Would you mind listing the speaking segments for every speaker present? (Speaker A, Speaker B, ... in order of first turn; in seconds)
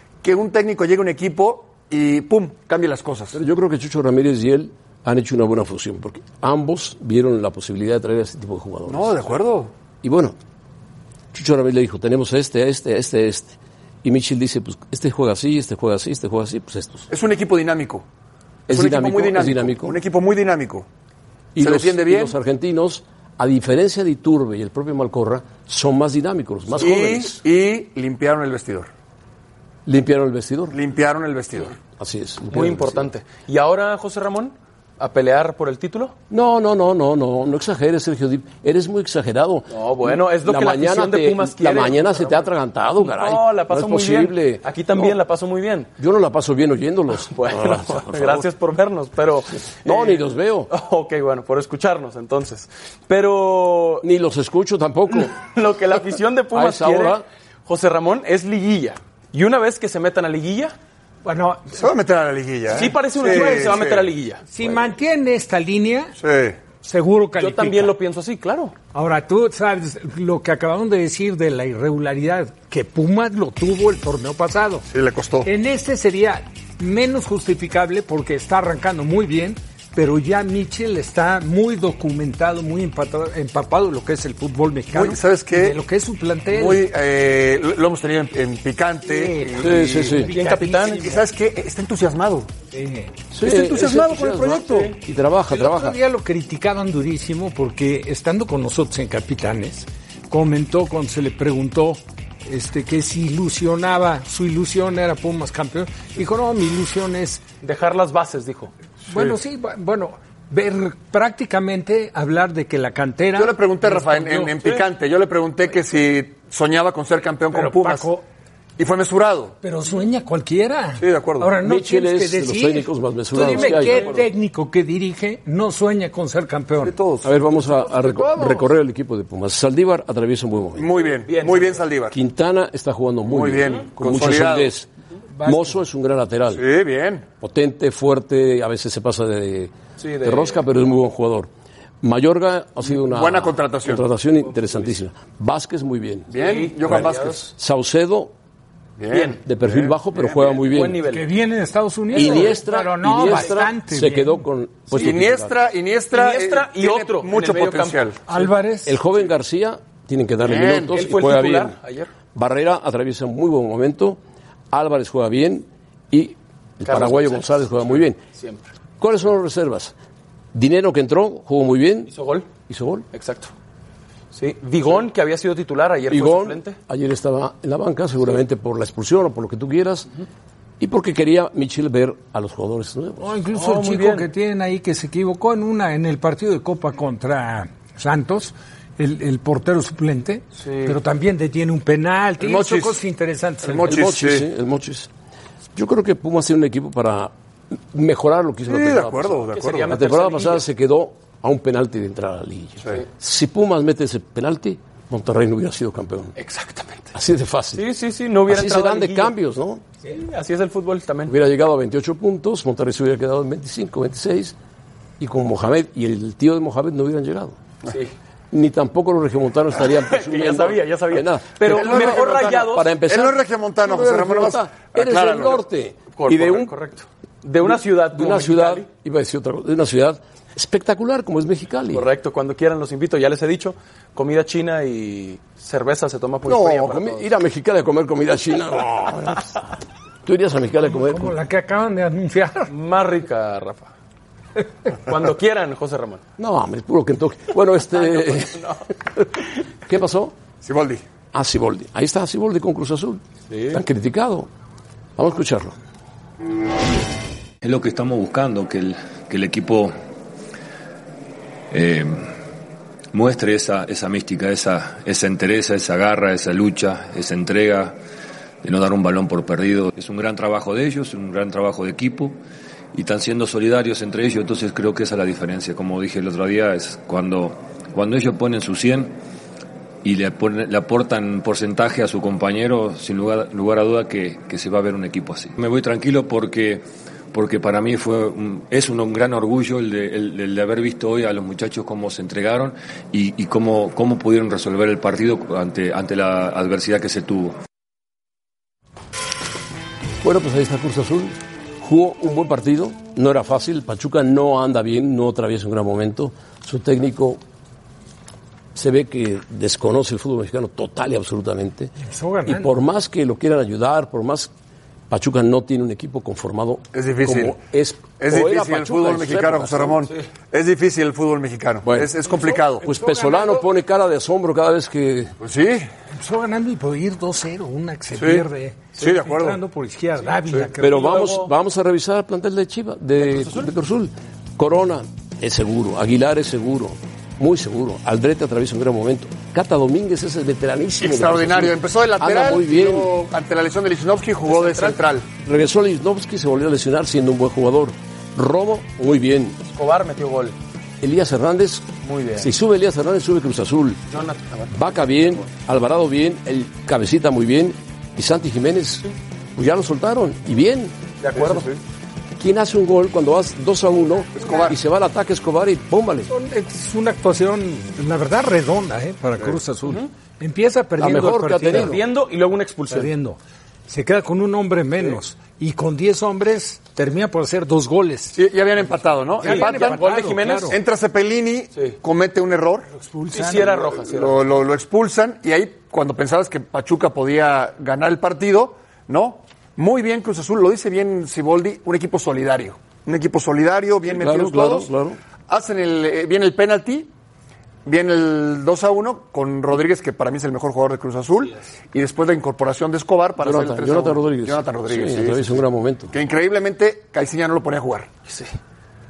Speaker A: 0.2-3.4, 8.9-9.7, 17.1-18.0, 18.7-20.9, 21.6-22.4, 26.7-28.9, 30.7-31.8, 61.8-64.1, 66.2-66.6, 74.9-75.5, 84.9-85.8, 86.5-90.3, 91.0-92.5, 93.4-94.9, 109.1-109.3, 113.3-118.1, 118.8-119.5, 121.0-121.5, 123.6-124.2, 126.8-127.3, 130.8-132.2, 133.2-134.7, 136.5-137.2, 142.9-144.0, 146.3-147.4, 149.0-149.9, 154.9-158.2, 160.4-161.0, 192.4-193.0, 193.6-194.5, 198.7-199.9, 221.6-225.6, 250.6-251.0, 316.9-317.6, 318.2-322.8, 325.4-325.9, 328.1-328.4, 329.0-329.6, 341.0-345.2, 361.4-361.6, 364.4-364.8, 378.3-380.0, 380.7-382.9, 384.0-394.9, 395.5-397.1, 397.9-408.1
Speaker B: 3.3-9.3, 10.0-10.3, 11.3-17.1, 18.7-20.0, 21.5-27.4, 29.9-30.8, 32.0-33.1, 36.3-45.1, 46.0-48.4, 49.8-50.7, 54.0-55.3, 56.5-57.2, 89.5-90.3, 93.3-96.0, 121.6-124.1, 127.2-130.9, 132.1-134.9, 135.4-136.6, 137.4-141.5, 142.0-146.3, 146.8-148.3, 149.4-151.0, 152.1-155.5, 158.8-161.8, 162.3-164.2, 164.7-168.2, 169.0-169.9, 170.5-172.1, 172.7-173.1, 176.1-180.1, 180.8-183.4, 193.8-195.1, 195.7-206.3, 207.1-207.8, 208.5-209.8, 211.3-214.6, 215.2-217.6, 218.5-226.7, 227.7-232.1, 236.4-239.6, 240.2-241.3, 246.4-250.3, 251.3-254.5, 255.2-255.7, 300.2-307.4, 308.7-311.9, 312.4-314.5, 315.1-320.1, 321.8-322.1, 322.8-325.3, 330.8-343.1, 345.4-349.6, 351.0-354.0, 354.7-360.9, 362.4-366.3, 371.0-372.0, 394.1-395.2, 403.4-406.1
Speaker C: 32.5-36.1, 39.7-42.5, 43.0-45.9, 47.3-54.0, 55.1-60.7, 62.7-64.4, 67.4-68.7, 90.3-91.1, 107.6-108.7, 131.2-131.8, 140.0-140.6, 146.3-147.4, 149.1-149.4, 150.3-151.3, 152.1-152.5, 156.1-158.3, 160.8-162.1, 166.8-168.7, 172.1-172.5, 173.1-173.5, 174.3-176.8, 183.5-184.3, 190.6-190.9, 199.5-200.7, 206.4-207.1, 207.7-209.3, 210.1-211.3, 217.9-218.1, 219.8-222.9, 226.2-228.9, 231.9-237.3, 242.7-243.9, 245.0-246.2, 247.9-248.8, 253.5-253.8, 330.9-331.4, 344.4-345.0, 349.7-350.6, 352.0-352.5, 354.1-354.7, 361.2-361.7, 371.7-373.1, 379.4-380.8, 383.3-384.5, 408.3-408.5
Speaker D: 61.2-61.8, 63.2-63.8, 64.5-66.1, 66.8-67.9, 68.9-74.8, 75.4-86.9, 89.0-91.2, 92.7-93.1, 95.5-107.4, 109.1-114.6, 117.5-118.2, 119.6-126.9, 127.7-128.7, 135.3-135.8, 151.0-154.4, 158.3-159.0, 183.2-194.0, 240.8-242.7, 312.0-312.7, 322.3-323.7, 326.1-331.4, 366.3-371.9, 372.9-378.4, 379.4-380.8, 382.9-383.9
Speaker E: 257.6-259.9, 261.7-262.3, 263.1-268.0, 268.6-272.4, 272.9-279.1, 280.0-297.6